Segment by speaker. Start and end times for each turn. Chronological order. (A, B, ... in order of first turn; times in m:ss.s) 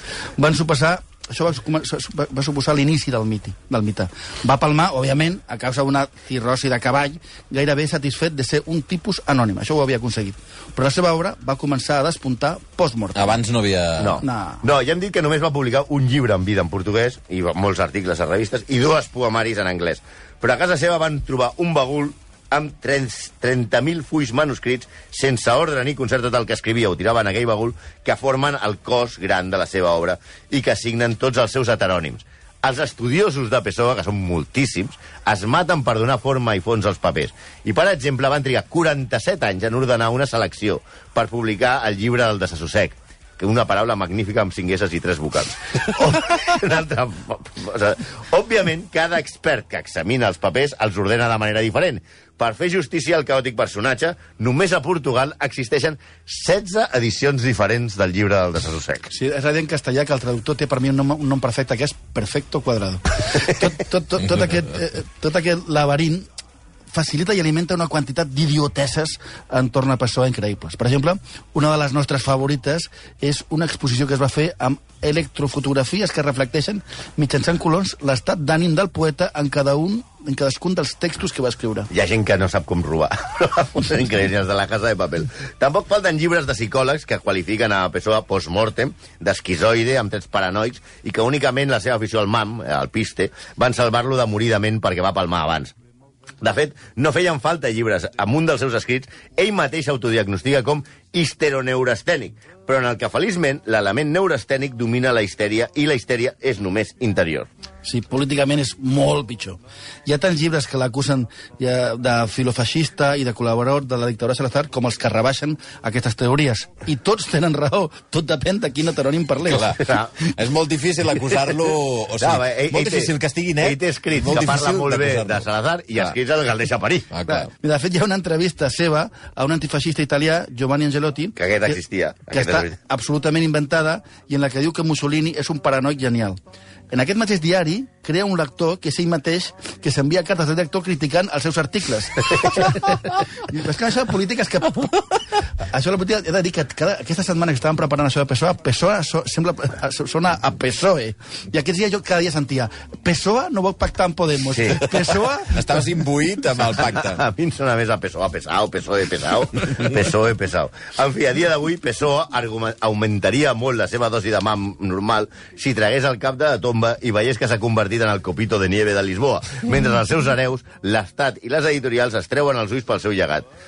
0:00.4-0:13.4 A
0:13.1-0:14.2 B
0:14.0-0:59.1 C
0:14.2-0:14.6 A
0:59.1-1:06.3 A
1:06.9-1:21.9 A
1:21.9-1:35.7 C
1:36.4-1:47.5 C
1:47.8-1:59.8 A
1:59.5-2:05.4 B
1:59.8-2:00.1 C
2:02.2-2:07.1 C
2:07.1-2:07.5 B
2:07.3-2:11.4 A
2:11.4-2:12.7 C
2:12.3-2:16.4 A
2:16.9-2:25.0 A
2:25.6-2:35.6 A
2:34.5-2:34.9 C
2:35.0-2:37.2 B
2:36.8-2:53.5 C